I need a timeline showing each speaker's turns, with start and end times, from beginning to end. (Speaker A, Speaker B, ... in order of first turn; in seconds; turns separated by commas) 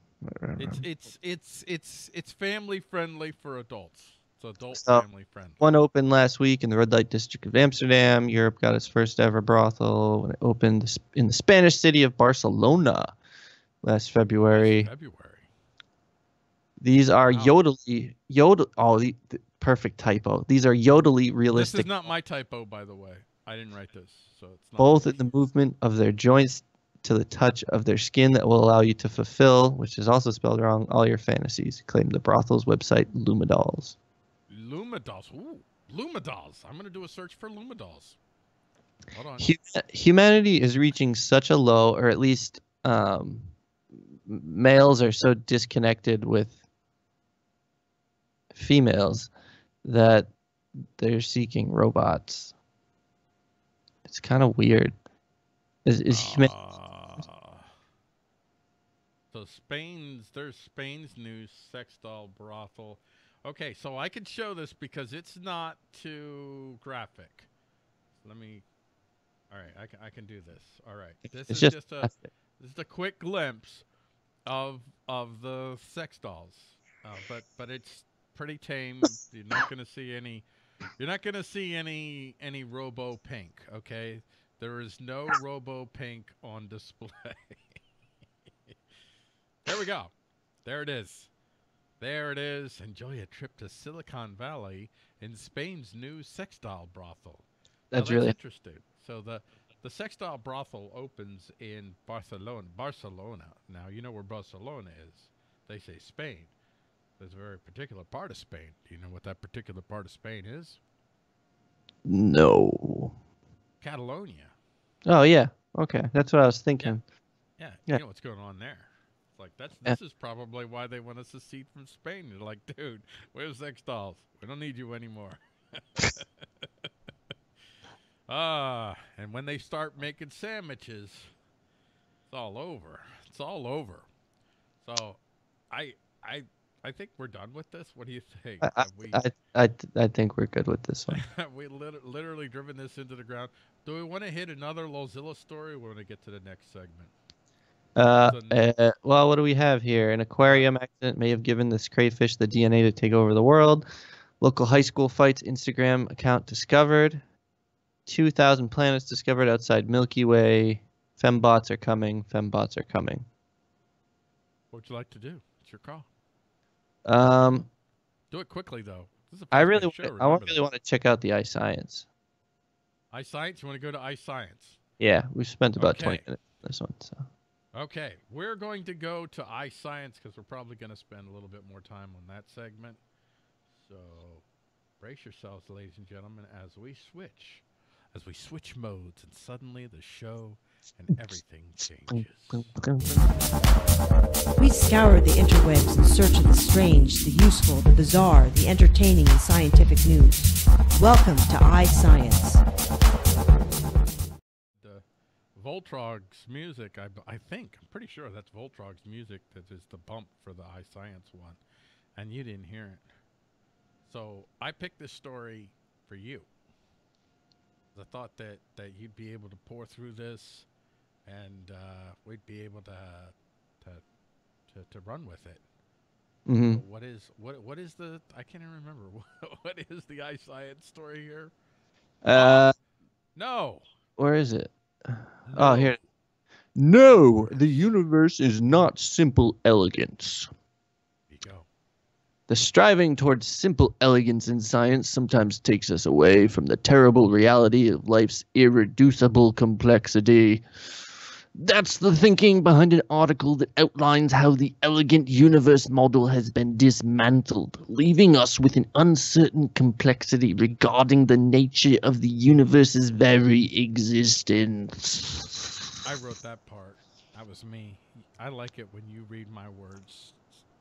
Speaker A: 0.2-0.8, Speaker B: 0.6-5.6, Speaker A: 4.8-5.0, Speaker A: 5.6-13.2, Speaker A: 13.8-14.9, Speaker B: 14.5-15.5, Speaker A: 16.8-21.9, Speaker B: 17.3-17.6, Speaker B: 21.5-25.3, Speaker A: 24.8-34.0, Speaker B: 34.5-38.2, Speaker B: 39.1-39.5, Speaker A: 39.4-43.5, Speaker A: 44.3-46.6, Speaker A: 48.5-49.3, Speaker A: 49.9-52.5, Speaker A: 54.1-55.0, Speaker A: 55.9-56.5, Speaker B: 56.1-57.7, Speaker B: 59.3-67.5, Speaker B: 68.2-68.7, Speaker B: 69.5-73.8, Speaker A: 71.5-72.3, Speaker B: 74.5-80.5, Speaker B: 81.0-87.6, Speaker B: 89.7-90.1, Speaker B: 90.7-91.3, Speaker B: 92.0-106.5, Speaker A: 97.9-98.3, Speaker B: 107.2-110.8, Speaker A: 112.0-113.1, Speaker B: 113.8-114.5, Speaker A: 115.1-117.0, Speaker B: 117.6-126.9, Speaker B: 128.3-131.3, Speaker B: 132.3-134.1, Speaker B: 134.8-139.2, Speaker A: 138.6-141.2, Speaker B: 141.1-147.1, Speaker A: 148.0-153.9, Speaker B: 148.2-148.6, Speaker B: 150.4-150.7, Speaker A: 154.4-157.2, Speaker A: 158.1-163.3, Speaker B: 164.7-166.1, Speaker A: 167.1-167.7, Speaker B: 168.3-170.7, Speaker A: 169.5-172.1, Speaker B: 173.1-174.8, Speaker A: 175.0-177.3, Speaker B: 175.8-176.2, Speaker B: 177.7-183.0, Speaker B: 183.8-184.4, Speaker B: 185.0-193.2, Speaker A: 192.1-193.1, Speaker C: 194.6-202.7, Speaker B: 205.6-211.6, Speaker B: 212.2-213.1, Speaker B: 214.1-216.5, Speaker B: 217.9-220.7, Speaker B: 221.2-224.0, Speaker B: 224.7-225.6, Speaker A: 226.5-226.8, Speaker B: 226.7-231.5, Speaker A: 232.2-232.7, Speaker B: 232.3-232.7, Speaker B: 233.4-233.9, Speaker A: 234.2-236.0, Speaker B: 235.5-236.1, Speaker A: 236.8-240.5, Speaker B: 237.1-237.9, Speaker B: 241.3-241.7, Speaker A: 242.5-250.7, Speaker A: 251.6-265.8, Speaker B: 266.0-270.4